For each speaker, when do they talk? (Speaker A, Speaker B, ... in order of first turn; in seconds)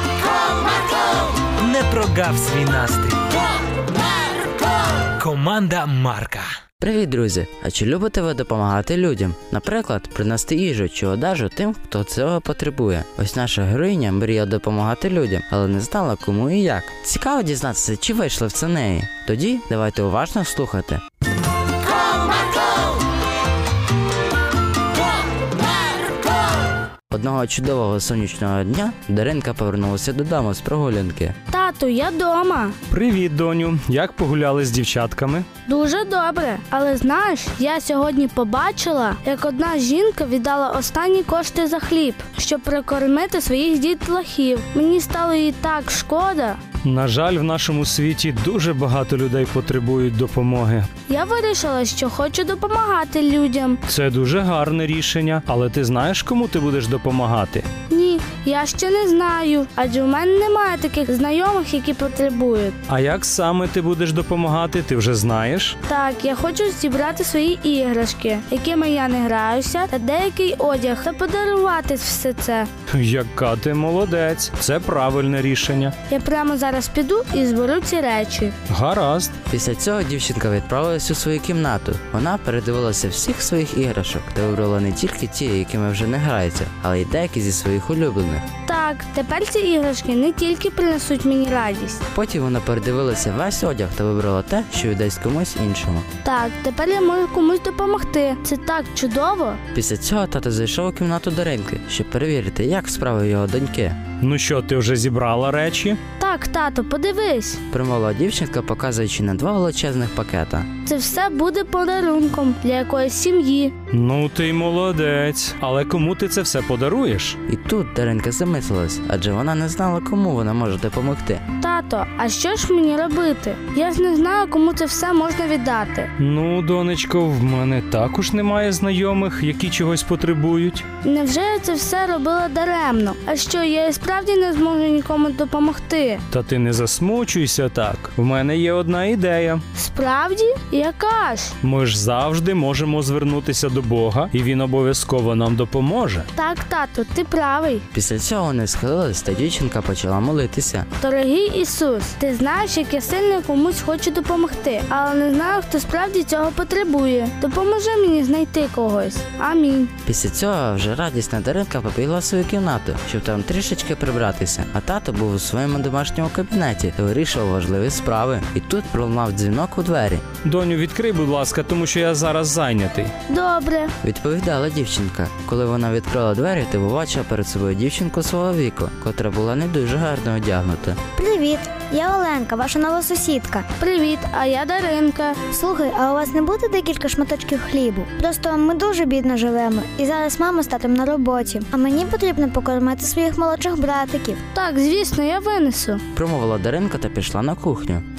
Speaker A: 1.6-3.2, 5.2-6.5
Speaker B: 6.8-21.0, 27.1-31.3, 79.5-88.4, 92.1-96.0, 99.7-104.0, 107.7-110.7, 117.5-121.4, 147.9-150.9, 160.0-170.2, 174.0-181.0, 196.1-198.0
Speaker C: 31.5-32.8, 35.6-46.6, 51.1-53.8, 57.9-62.8, 65.8-72.7, 76.1-78.5, 88.7-92.0, 96.2-99.6, 106.2-107.6, 110.8-113.7, 121.6-126.1, 131.0-136.2, 139.7-141.6, 146.3-147.8, 151.0-159.9, 173.3-173.9, 183.8-185.4, 194.5-196.0
Speaker D: 32.9-35.5, 46.8-50.9, 53.9-57.7, 62.9-65.8, 72.9-75.9, 78.7-79.3, 104.2-106.0, 113.9-117.4, 126.2-130.8, 136.3-139.6, 141.6-146.3, 170.4-173.1
Speaker E: 181.1-183.6, 185.5-194.4